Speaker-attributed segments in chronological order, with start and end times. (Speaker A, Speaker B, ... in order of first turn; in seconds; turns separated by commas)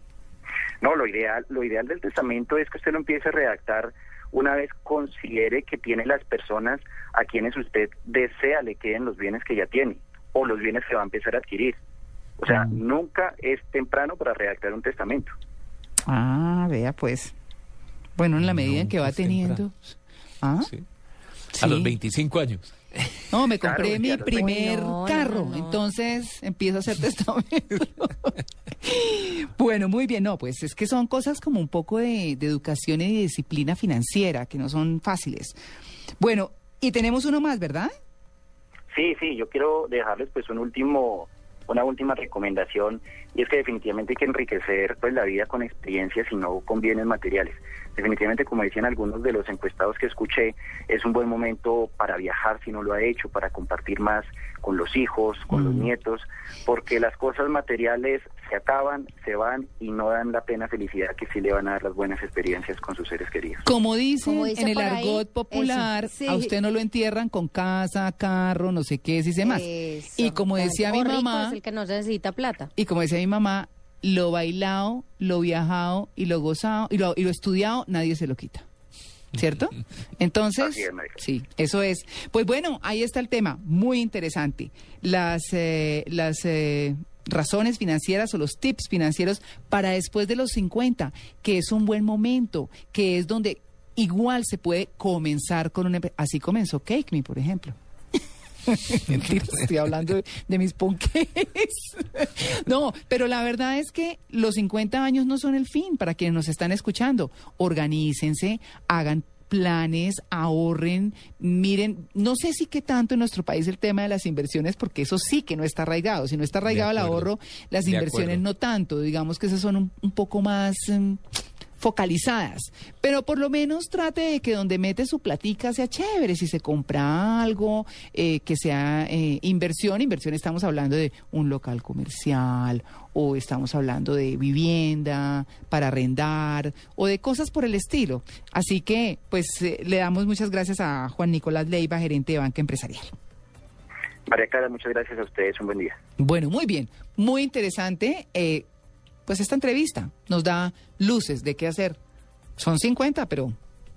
Speaker A: 0.8-11.8, Speaker A: 12.4-15.3, Speaker B: 12.5-12.8, Speaker B: 16.1-17.3, Speaker B: 18.2-19.7, Speaker C: 18.4-19.6, Speaker B: 20.4-20.7, Speaker B: 21.5-21.9, Speaker C: 21.5-23.1, Speaker B: 23.3-35.6, Speaker A: 23.6-24.5, Speaker D: 24.3-25.9, Speaker B: 36.2-37.9, Speaker A: 38.9-63.6, Speaker B: 55.5-55.9, Speaker B: 63.6-71.6, Speaker D: 64.2-66.5, Speaker D: 69.4-72.7, Speaker B: 72.8-78.6, Speaker B: 79.3-97.7, Speaker A: 80.6-81.2, Speaker B: 98.7-121.2, Speaker C: 116.7-117.3, Speaker C: 117.8-118.4, Speaker B: 121.8-143.1, Speaker A: 144.3-146.0, Speaker B: 146.2-148.7, Speaker B: 149.3-152.0, Speaker B: 152.6-153.6